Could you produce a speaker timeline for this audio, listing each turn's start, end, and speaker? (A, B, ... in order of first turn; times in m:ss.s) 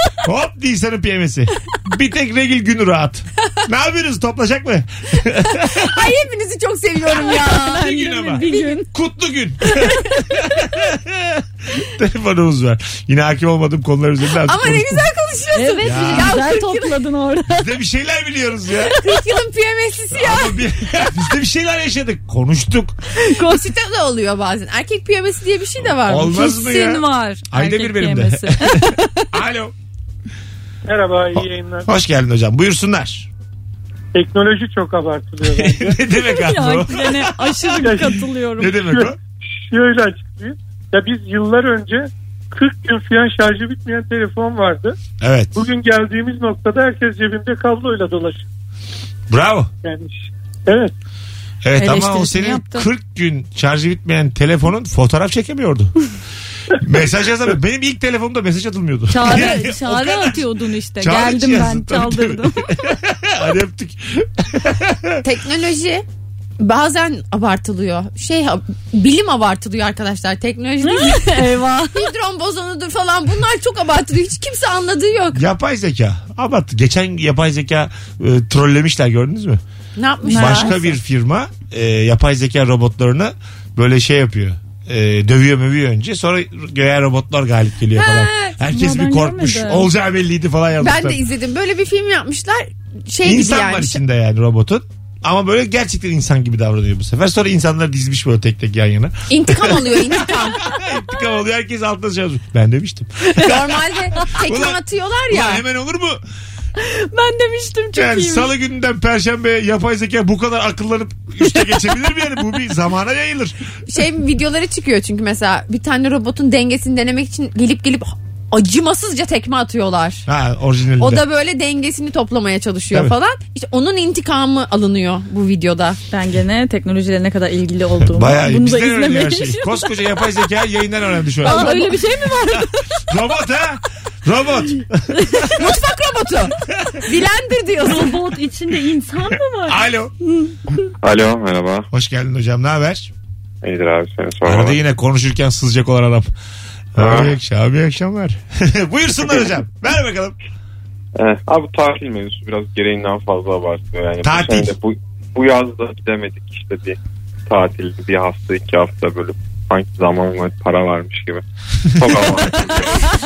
0:00.2-0:06.1 A
0:05.6-0:08.8 B
0:07.3-0:08.9 C
0:07.8-0:15.1 A
0:09.8-0:10.5 B
0:14.4-0:17.0 B
0:15.6-0:17.7 C
0:15.8-0:16.4 A
0:17.5-0:19.0 A
0:18.9-0:20.6 B
0:20.1-0:23.0 A
0:23.2-0:23.7 C
0:23.3-0:26.6 B
0:25.9-0:29.7 A
0:26.3-0:29.0 C
0:30.9-0:31.9 D
0:31.4-0:33.3 A
0:34.1-0:36.0 D
0:35.4-0:38.1 A
0:36.4-0:38.8 C
0:37.8-0:38.2 D
0:38.6-0:39.2 A
0:38.8-0:39.1 D
0:39.7-0:45.0 D
0:45.2-0:45.6 A
0:45.6-0:48.4 D
0:49.3-0:49.7 A
0:49.8-0:50.9 D
0:51.6-0:56.0 A
0:51.8-0:52.9 C
0:56.8-1:00.5 A
0:59.1-1:02.7 C
1:01.0-1:05.3 A
1:05.2-1:06.0 B
1:06.6-1:15.4 B
1:10.8-1:12.1 C
1:15.3-1:19.6 A
1:20.0-1:20.9 B
1:20.2-1:20.8 C
1:20.3-1:31.2 A
1:28.0-1:28.5 B
1:28.6-1:29.9 C
1:30.8-1:34.0 B
1:33.2-1:43.8 A
1:39.3-1:40.6 B
1:43.3-1:45.6 B
1:44.3-1:46.2 A
1:46.8-1:48.5 C
1:48.0-1:53.6 A
1:53.9-2:00.2 B
2:00.3-2:01.3 A
2:01.0-2:06.0 B
2:06.1-2:09.9 C
2:08.0-2:11.7 A
2:11.4-2:12.2 B
2:11.4-2:12.8 C
2:12.6-2:15.7 A
2:15.4-2:18.2 B
2:17.8-2:19.8 C
2:19.7-2:20.1 A
2:21.0-2:21.9 E
2:21.9-2:23.1 A
2:23.6-2:24.8 E
2:24.4-2:26.3 A
2:27.0-2:30.4 A
2:27.0-2:27.3 E
2:31.2-2:43.1 E
2:34.2-2:34.7 A
2:41.9-2:42.8 A